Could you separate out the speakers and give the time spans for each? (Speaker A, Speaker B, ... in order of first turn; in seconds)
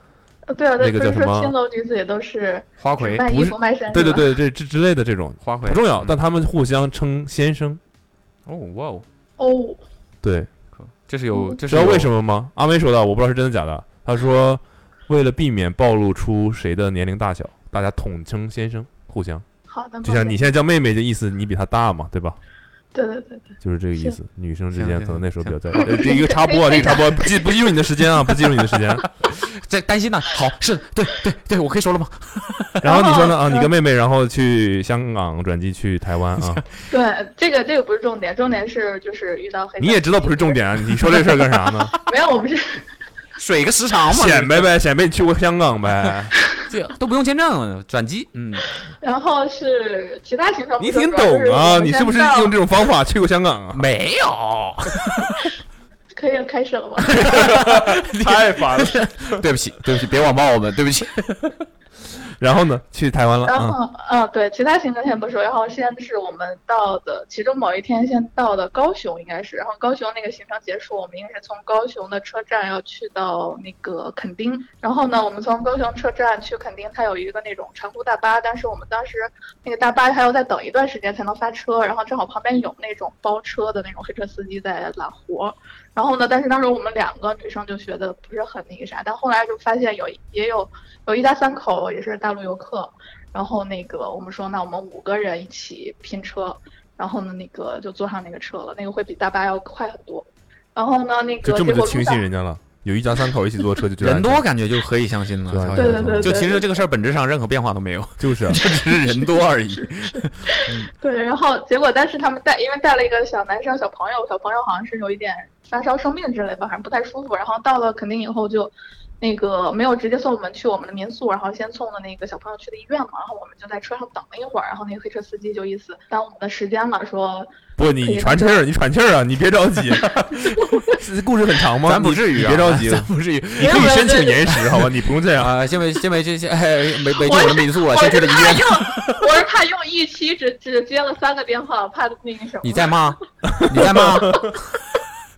Speaker A: 0.5-4.3, 9.4-9.8, 19.7-20.4, 22.9-24.2, 25.8-27.4, 32.9-33.7, 36.9-40.6, 42.1-42.9, 49.0-52.6, 56.1-57.2, 63.5-102.3, 105.8-106.8, 109.1-128.6, 130.6-130.9, 133.6-134.4, 137.2-143.0
Speaker B: 0.8-1.5, 3.2-7.8, 10.2-10.5, 11.7-19.4, 20.0-22.4, 23.6-29.1, 32.8-36.6, 39.8-41.9, 44.1-46.3, 50.8-53.9, 57.4-59.4, 62.4-63.8, 101.4-104.5, 105.5-106.4, 108.2-108.6, 127.8-135.7
Speaker C: 2.8-3.2, 5.4-6.2, 8.5-9.1, 10.7-12.1, 24.7-25.9, 29.2-32.8, 36.5-36.7, 41.1-42.0, 43.4-44.7, 46.7-48.8, 53.7-55.5, 57.1-61.5, 104.0-110.9, 131.8-139.2, 142.6-144.6